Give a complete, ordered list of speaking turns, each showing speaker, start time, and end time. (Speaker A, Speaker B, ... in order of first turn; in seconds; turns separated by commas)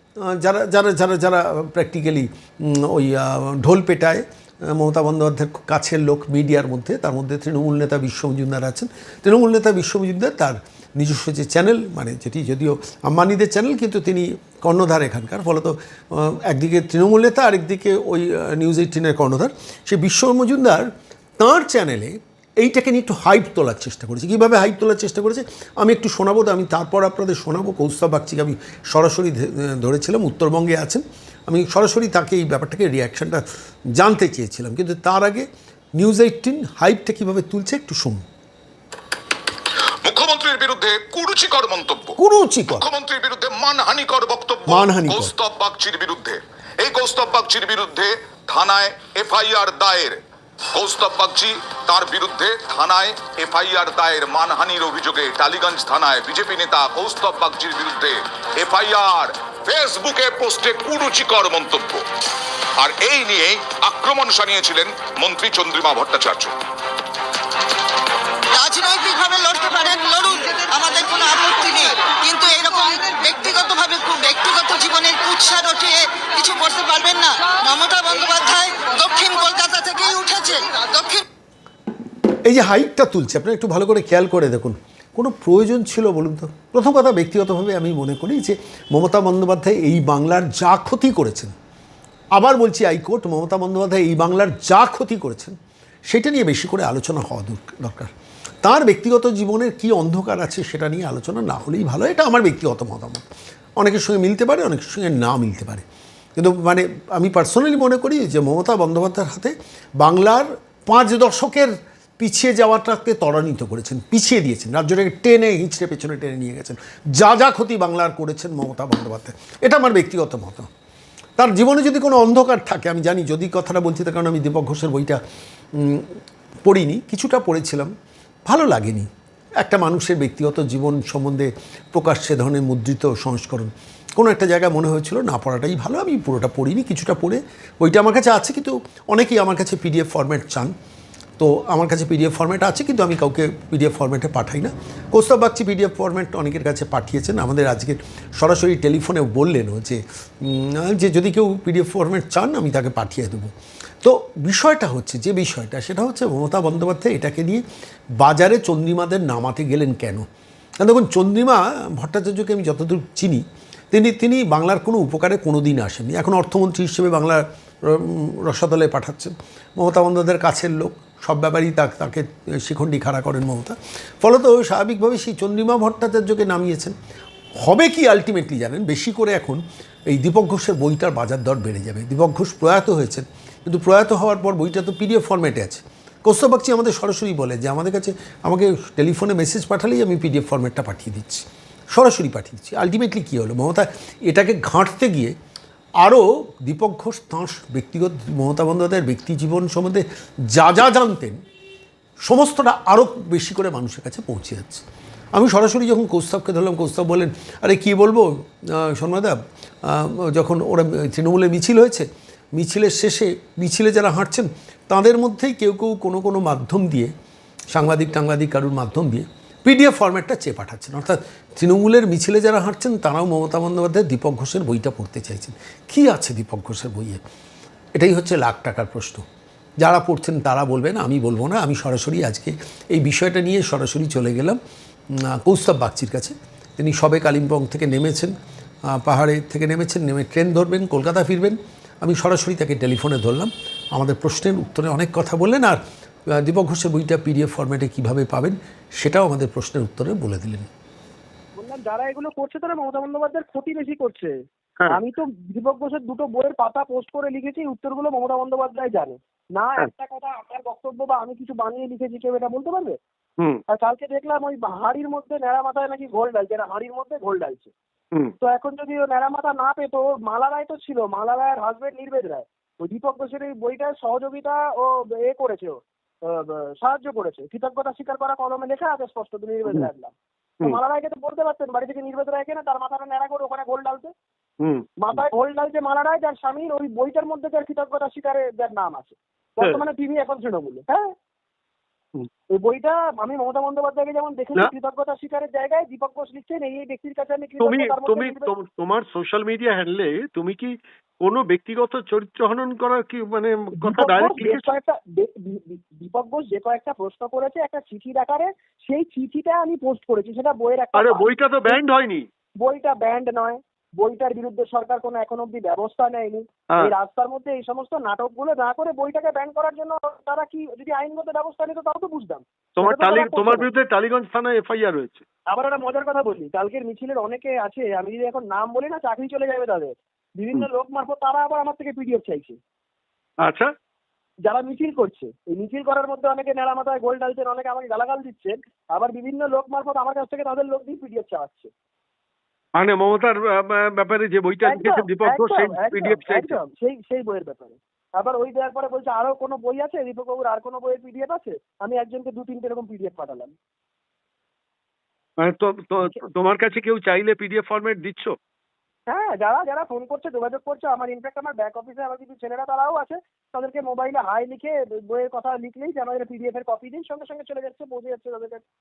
Speaker A: 0.2-33.4, Speaker A: 34.0-38.2, Speaker B: 40.0-42.2, Speaker A: 42.2-42.9, Speaker B: 42.7-50.2, Speaker A: 44.7-45.3, Speaker B: 50.7-62.1, Speaker B: 62.8-66.5, Speaker C: 68.5-81.2, Speaker A: 82.5-91.5, Speaker A: 92.3-95.6, Speaker A: 96.1-98.1, Speaker A: 98.6-103.2, Speaker A: 103.8-105.8, Speaker A: 106.4-120.7, Speaker A: 121.4-125.2, Speaker A: 125.8-126.1, Speaker A: 126.7-127.9, Speaker A: 128.5-129.1, Speaker A: 129.6-140.7, Speaker A: 141.4-157.6, Speaker A: 158.2-160.3, Speaker A: 160.8-176.9, Speaker A: 177.6-195.3, Speaker A: 196.0-201.4, Speaker A: 202.2-204.8, Speaker A: 205.3-217.1, Speaker A: 217.7-227.2, Speaker A: 228.0-229.2, Speaker A: 229.8-234.6, Speaker A: 235.1-238.3, Speaker A: 238.9-245.8, Speaker A: 246.3-250.7, Speaker D: 251.6-254.3, Speaker D: 254.9-263.0, Speaker D: 263.7-267.7, Speaker D: 268.4-284.1, Speaker D: 285.0-291.1, Speaker D: 292.5-298.5, Speaker E: 297.6-304.7, Speaker D: 303.8-311.8, Speaker E: 310.9-312.2, Speaker D: 312.6-323.7, Speaker E: 322.8-325.2, Speaker D: 325.5-332.6, Speaker E: 333.4-333.7, Speaker D: 334.4-341.7, Speaker E: 342.8-346.6, Speaker D: 344.6-353.5, Speaker E: 355.4-358.4, Speaker D: 359.1-368.6